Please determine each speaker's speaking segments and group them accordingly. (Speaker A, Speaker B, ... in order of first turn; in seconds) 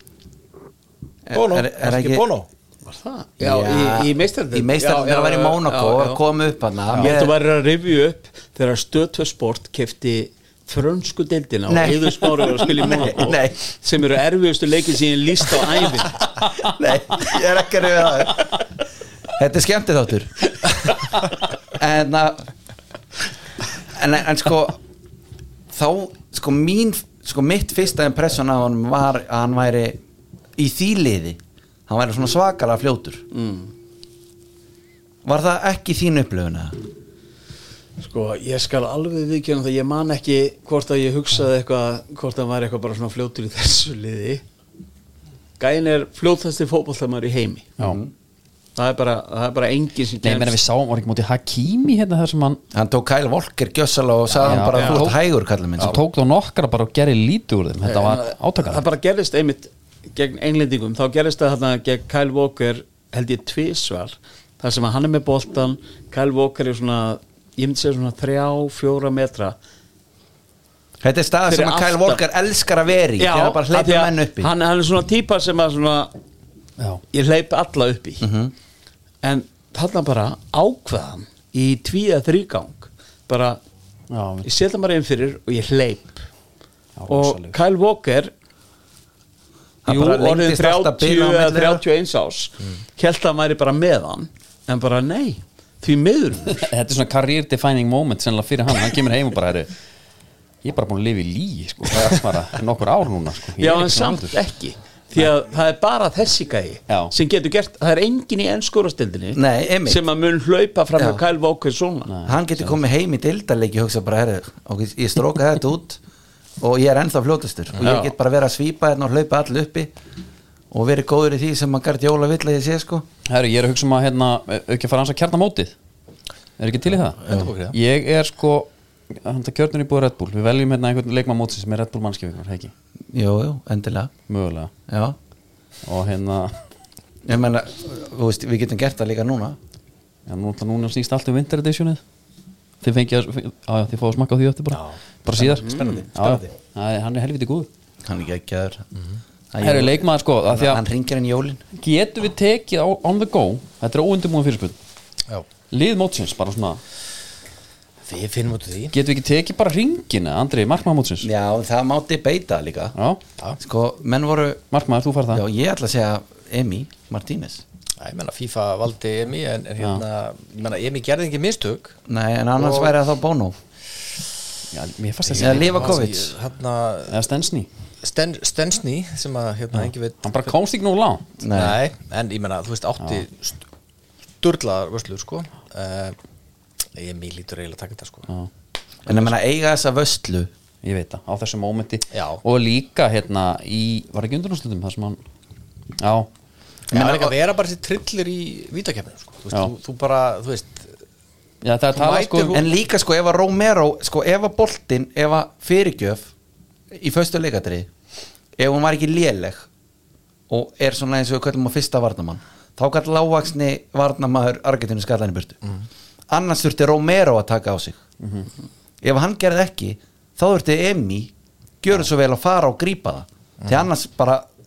Speaker A: 1.2-2.3, 3.4-7.3, 11.7-13.6, 16.6-18.6, 19.3-21.0, 21.7-22.4, 23.8-24.8, 25.7-30.0, 30.6-33.2, 35.2-36.8, 47.8-48.1, 52.7-56.0, 71.0-74.5, 78.2-78.5, 89.8-91.8, 109.3-110.0, 111.0-111.2, 112.2-116.0, 116.6-119.9, 120.7-123.0, 133.1-134.1, 134.9-135.2, 137.2-139.6, 148.0-148.8, 149.5-151.6, 161.2-162.9, 163.6-164.6, 165.3-167.6, 172.1-173.6, 175.4-176.3, 181.4-181.8, 189.1-190.5, 196.9-197.3, 202.5-206.3, 206.9-207.9, 208.6-209.7, 210.5-215.6, 216.3-218.0, 219.0-224.4
Speaker B: 1.3-2.5, 127.2-127.8, 144.7-146.5, 158.0-158.9, 168.0-171.9, 172.6-172.9, 175.3-177.2, 178.0-180.2, 181.5-183.6, 184.4-186.2, 186.9-188.3, 192.1-192.4, 196.9-200.9, 201.9-202.6
Speaker C: 2.8-6.2, 6.9-16.2, 33.3-33.7, 38.0-44.4, 45.6-47.7, 48.8-50.6, 54.7-55.0, 57.8-69.5, 71.5-72.2, 73.2-76.1, 77.1-78.3, 79.2-83.6, 84.4-86.2, 87.1-88.3, 89.8-96.7, 103.6-112.1, 117.8-118.1, 145.6-146.0
Speaker D: 50.2-52.6, 54.4-55.2, 55.8-58.8, 84.1-84.5, 87.0-87.6, 96.5-99.7, 100.6-104.4, 112.1-112.8, 123.2-125.7, 126.6-132.7, 134.3-134.7, 135.8-136.6, 140.3-142.0, 142.8-147.7, 149.6-150.8, 151.7-154.8, 155.7-156.8, 158.9-161.3, 162.9-163.2, 164.7-165.4, 174.7-176.0, 177.1-177.7, 179.7-181.2, 190.8-195.2, 196.0-196.3, 201.6-202.6, 218.2-218.5